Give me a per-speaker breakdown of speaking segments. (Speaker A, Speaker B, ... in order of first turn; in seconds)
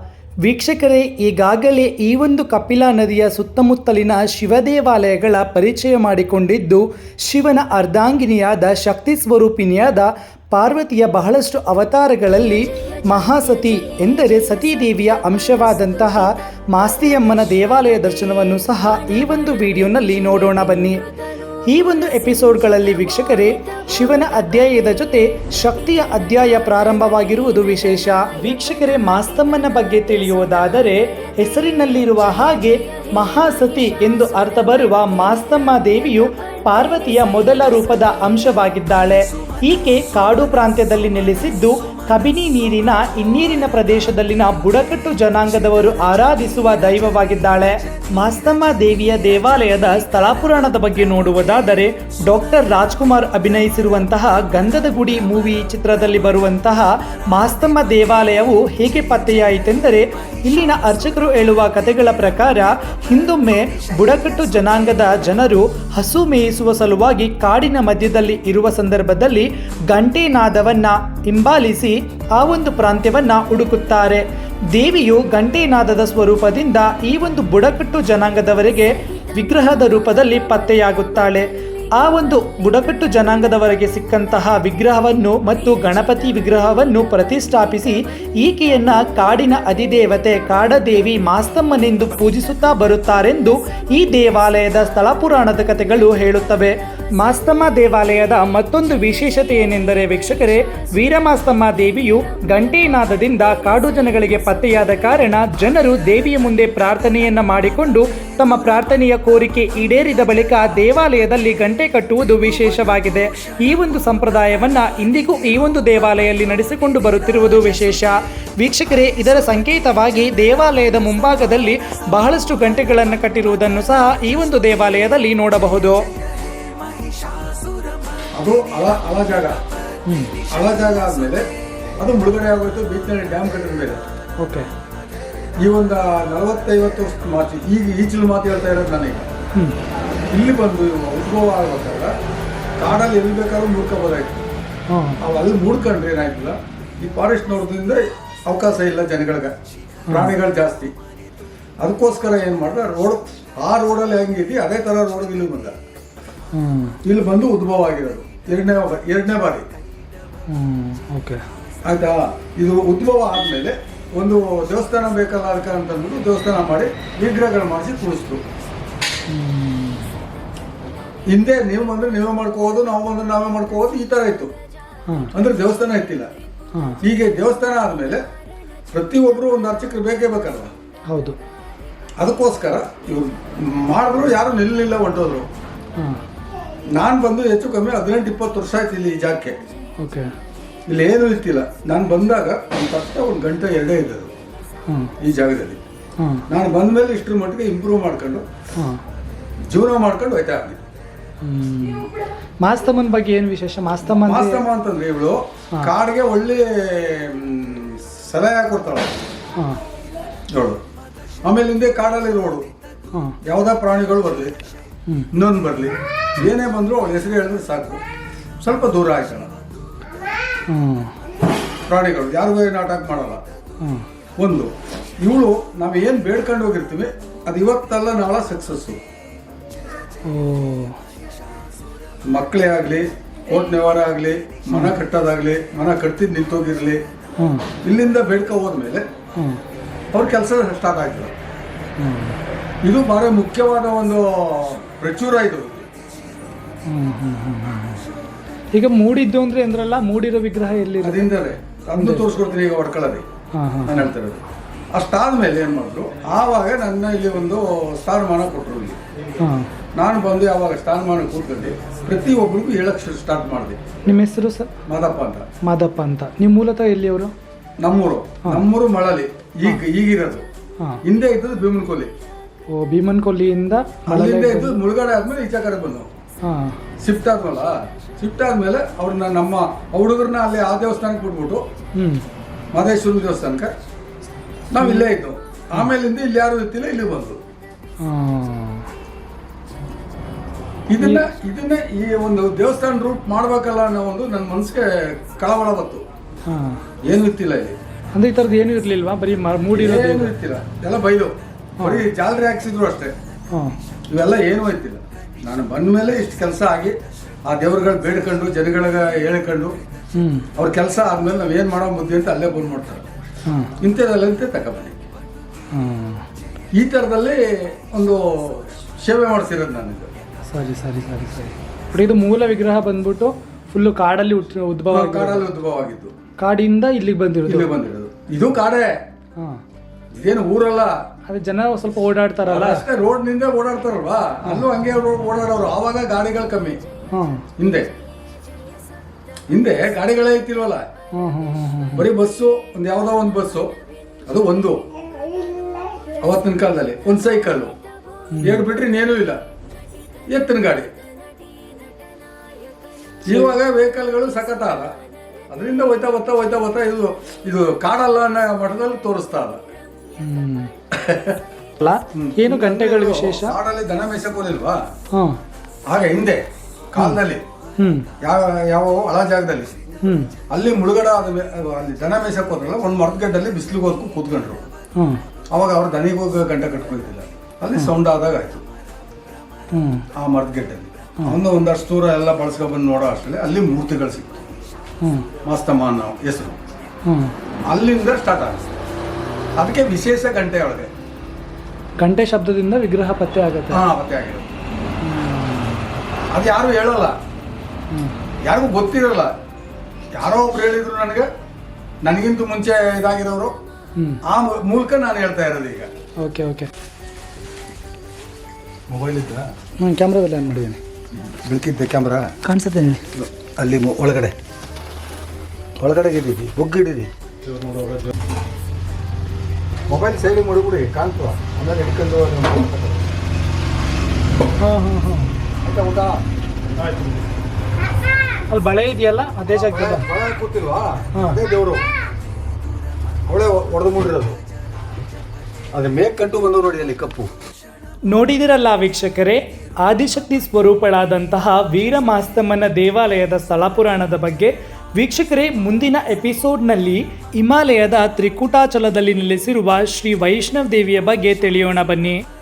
Speaker A: 0.4-21.0, 21.7-126.0, 130.1-130.3, 134.4-134.7, 144.9-145.2, 150.1-150.3, 156.5-157.0, 160.5-161.4, 169.3-170.1, 181.1-181.4, 190.0-190.3, 194.9-195.1, 196.2-196.4, 198.8-199.0, 201.4-202.1, 202.6-204.6, 220.7-221.1, 230.3-231.0, 234.7-235.0, 237.4-237.7, 242.0-242.4, 246.9-248.1, 248.8-251.3, 251.9-252.3, 253.6-254.1, 259.4-259.7, 264.1-264.7, 265.6-267.3, 272.7-274.8, 276.4-276.8, 282.0-282.2, 284.8-285.1, 288.0-288.9, 291.0-291.3, 296.5-296.8, 298.1-300.3, 301.8-302.1, 310.1-310.5, 313.5-313.7, 315.7-316.2, 320.5-325.5, 326.4-327.8, 331.3-332.8, 337.1-337.4, 341.1-342.1, 348.3-348.6, 353.3-353.5, 360.2-360.7, 361.8-363.6, 367.8-368.1, 370.0-370.3, 379.7-380.1, 385.0-385.3, 387.1-387.3, 392.0-393.8, 395.0-395.9, 406.2-406.7, 409.8-410.8, 412.4-413.0, 424.6-425.3, 428.5-430.1, 431.1-431.4, 438.1-452.2
Speaker B: 128.3-129.6, 130.5-131.4, 132.0-134.0, 135.6-139.3, 140.3-142.1, 142.8-144.4, 145.2-149.5, 150.1-150.9, 151.8-155.8, 157.0-159.7, 161.8-168.4, 171.3-174.5, 175.3-176.3, 177.0-178.2, 178.9-180.7, 182.2-185.5, 186.9-189.6, 190.9-194.3, 195.2-195.8, 196.5-198.4, 199.7-200.8, 204.1-209.2, 210.5-210.8, 211.4-212.7, 213.4-214.5, 215.3-218.0, 218.6-219.6, 221.9-223.4, 224.4-229.0, 232.3-237.0, 237.8-239.0, 240.1-241.3, 242.8-245.9, 251.0-253.2, 253.8-259.0, 259.9-263.8, 264.9-265.5, 267.8-270.4, 271.0-272.1, 274.1-276.1, 277.0-281.6, 282.7-283.7, 284.7-287.4, 290.9-296.0, 297.1-297.8, 299.7-303.1, 304.1-306.9, 307.5-309.7, 310.5-313.0, 313.8-315.0, 316.8-320.1, 324.9-326.1, 327.4-328.9, 330.1-331.0, 332.5-336.8, 337.6-337.9, 339.5-340.8, 341.9-343.7, 344.3-344.8, 346.2-347.7, 348.4-349.4, 350.3-350.9, 353.3-354.9, 355.5-359.6, 360.9-361.4, 362.1-364.8, 365.9-367.4, 368.2-370.0, 370.5-374.6, 375.5-378.6, 380.1-384.4, 385.4-386.6, 387.6-388.7, 389.6-390.9, 393.7-394.5, 396.3-397.1, 398.4-399.3, 400.1-401.3, 402.0-403.5, 404.2-405.9, 408.9-409.5, 411.1-412.4, 413.1-414.3, 415.8-417.1, 419.9-423.1, 425.6-426.2, 429.5-431.8, 433.3-434.4, 435.7-437.3